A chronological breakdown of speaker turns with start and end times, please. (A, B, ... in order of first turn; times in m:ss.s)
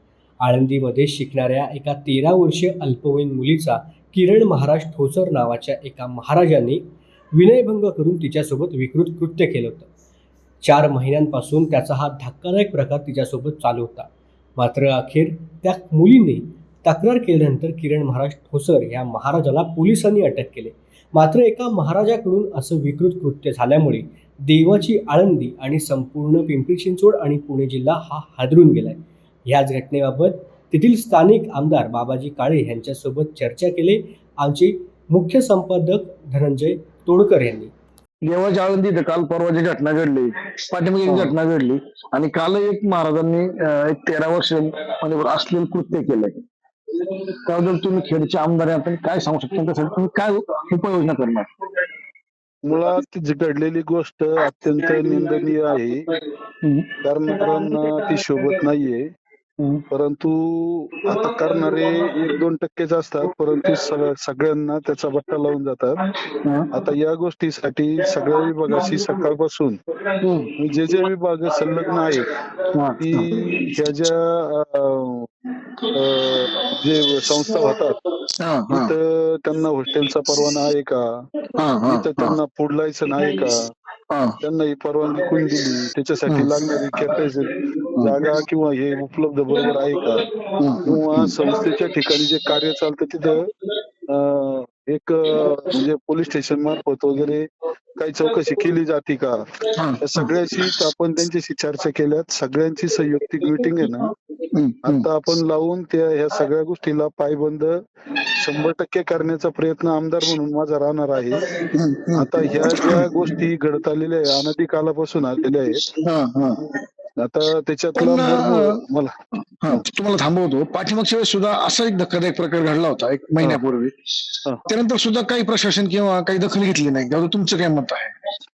0:00.4-0:09.9 A
0:10.6-0:37.7 A
0:38.2-0:46.4 B
0:41.0-0:41.4 C
0:47.0-0:51.5 B
0:52.6-0:56.0 C
0:56.6-0:56.9 B
0:57.0-0:59.0 C
0:59.9-1:06.0 C
1:06.4-1:06.7 B
1:06.7-1:09.8 C
1:10.2-1:10.5 B
1:10.6-1:12.4 C
1:12.7-1:13.3 B
1:13.0-1:15.3 C
1:15.9-1:18.0 C
1:18.4-1:18.9 B
1:18.7-1:21.0 C
1:21.6-1:22.4 B
1:21.9-1:23.7 C
1:24.1-1:24.4 B
1:24.4-1:30.3 C
1:26.3-1:27.0 B
1:30.6-1:31.4 B
1:30.8-1:33.5 C
1:34.1-1:39.4 C
1:39.8-1:40.3 B
1:40.0-1:44.1 C
1:44.5-1:45.1 B
1:44.8-1:47.8 C
1:48.3-1:55.9 C
1:51.7-1:53.3 B
1:55.9-1:56.7 B
1:57.2-1:59.1 C
1:58.0-1:58.8 B
1:59.6-2:08.1 B